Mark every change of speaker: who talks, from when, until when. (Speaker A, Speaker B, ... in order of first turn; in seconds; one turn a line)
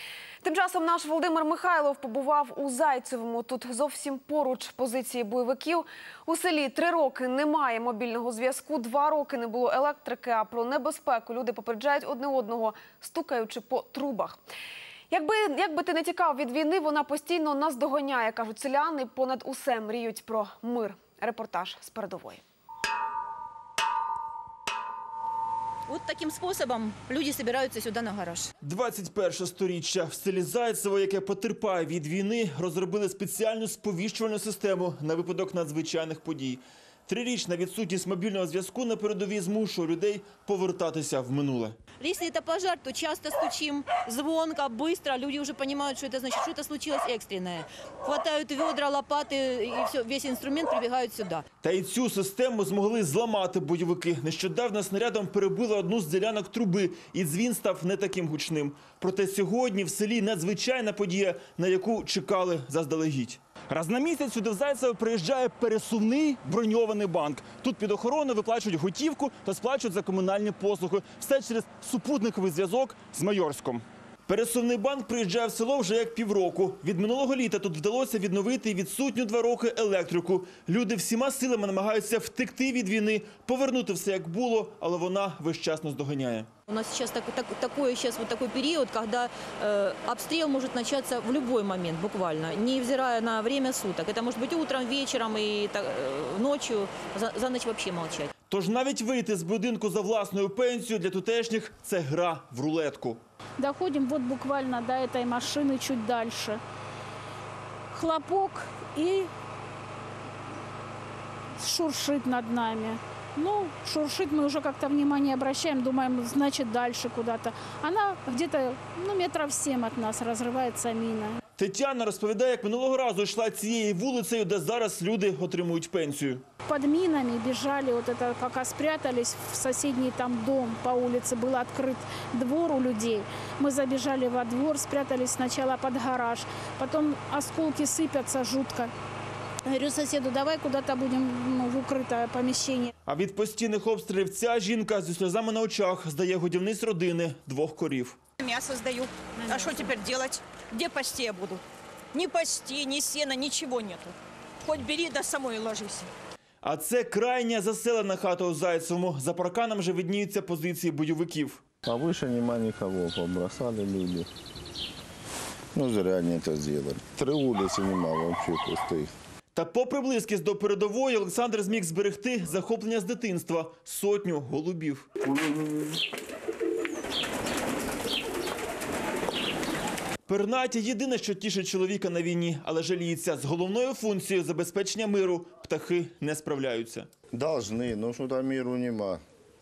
Speaker A: 0.4-14.4
Speaker A: 15.1-22.4
Speaker B: 25.9-28.5
Speaker C: 28.6-41.8
Speaker B: 42.0-51.4
Speaker C: 51.6-73.7
Speaker C: 74.3-86.5
Speaker B: 86.7-98.3
Speaker C: 98.5-103.2
Speaker D: 103.6-106.6
Speaker D: 107.9-109.3
Speaker D: 111.6-121.4
Speaker C: 121.6-126.4
Speaker D: 126.7-138.9
Speaker D: 139.6-142.9
Speaker C: 143.1-148.2
Speaker E: 148.4-156.1
Speaker C: 156.6-161.6
Speaker F: 161.8-164.3
Speaker F: 165.7-169.1
Speaker C: 169.6-175.0
Speaker C: 180.3-187.1
Speaker F: 187.3-189.2